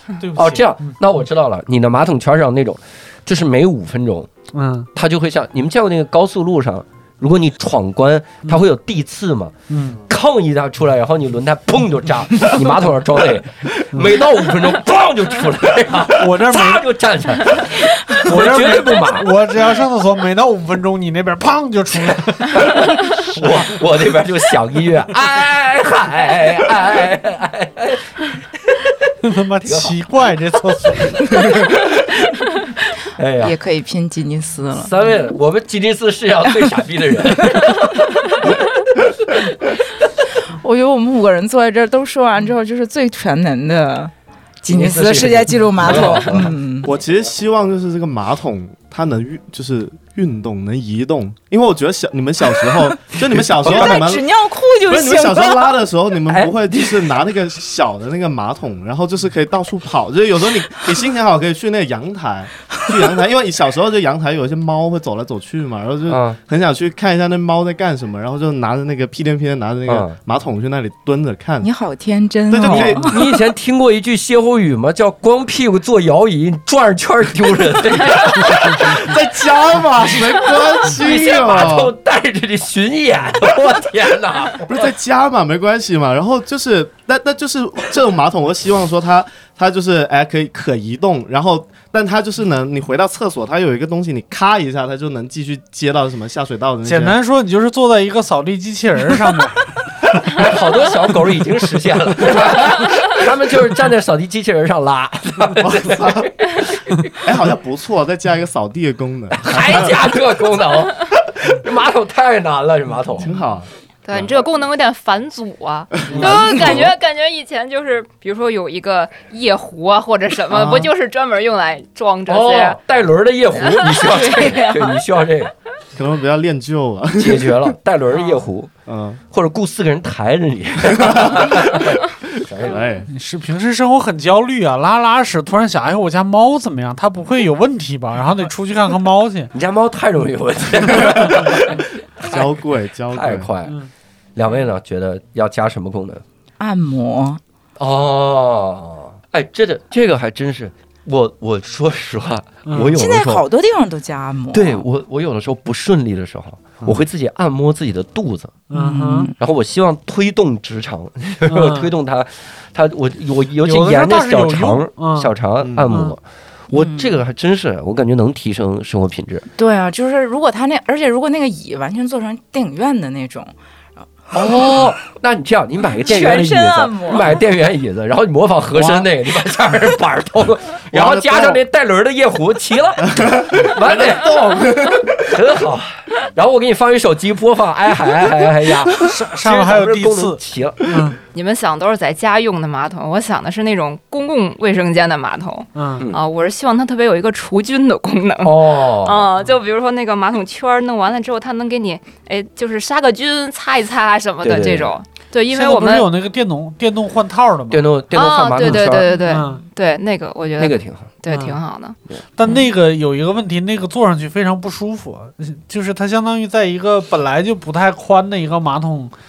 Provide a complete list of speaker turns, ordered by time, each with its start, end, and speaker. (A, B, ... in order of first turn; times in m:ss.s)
0:00.2-0:01.0 A
0:00.3-0:04.3 B
0:04.5-0:04.9 A
0:05.0-0:19.5 B
0:09.7-0:10.0 A
0:13.9-0:14.2 A
0:16.1-0:16.9 A
0:18.1-0:23.7 A
0:22.0-0:28.9 B
0:29.2-0:31.5 A
0:29.6-0:30.0 B
0:31.4-0:32.0 B
0:33.2-0:33.6 B
0:33.4-0:34.9 C
0:34.8-0:38.5 B
0:40.5-0:44.1 C
0:44.6-0:46.9 C
0:44.7-0:46.6 B
0:46.8-0:54.3 D
0:53.3-0:54.0 B
0:53.6-0:55.8 C
0:54.9-1:11.7 D
0:56.3-0:57.1 B
1:06.1-1:06.4 B
1:09.9-1:10.2 B
1:11.6-1:13.2 C
1:12.5-1:13.2 D
1:12.6-1:19.1 B
1:18.6-1:21.9 D
1:20.0-1:24.9 B
1:24.7-1:37.2 D
1:36.8-1:39.7 A
1:40.3-1:47.2 B
1:45.6-1:46.3 D
1:47.2-1:50.0 D
1:49.3-1:53.3 B
1:53.2-1:54.4 D
1:54.0-2:02.8 E
1:56.0-1:56.9 D
1:56.1-1:56.9 B
2:00.5-2:00.9 D
2:02.3-2:05.5 B
2:03.9-2:05.0 C
2:06.0-2:07.7 D
2:07.2-2:08.7 B
2:08.9-2:09.2 D
2:09.3-2:12.9 B
2:11.0-2:11.6 D
2:12.6-2:13.1 D
2:13.1-2:19.5 A
2:19.5-2:22.5 B
2:22.2-2:23.5 D
2:23.1-2:23.8 B
2:24.4-2:26.2 B
2:26.6-2:27.4 C
2:27.8-2:33.4 B
2:32.7-2:33.0 A
2:32.9-2:34.8 C
2:34.5-2:38.6 B
2:38.7-2:39.3 A
2:38.7-2:39.3 C
2:39.4-2:49.4 B
2:41.5-2:41.9 A
2:43.6-2:45.3 A
2:45.6-2:46.0 D
2:45.9-2:46.2 A
2:46.7-2:47.2 C
2:49.6-2:53.5 C
2:54.3-3:10.8 B
2:56.0-2:57.4 C
3:00.9-3:01.6 D
3:03.1-3:05.3 D
3:08.9-3:11.2 A
3:11.3-3:26.1 E
3:15.7-3:16.1 A
3:18.4-3:19.3 B
3:24.4-3:25.0 B
3:25.5-3:27.8 A
3:27.7-3:29.1 B
3:28.1-3:32.0 E
3:28.6-3:29.6 A
3:30.6-3:31.1 B
3:31.3-3:31.6 A
3:32.4-3:39.1 A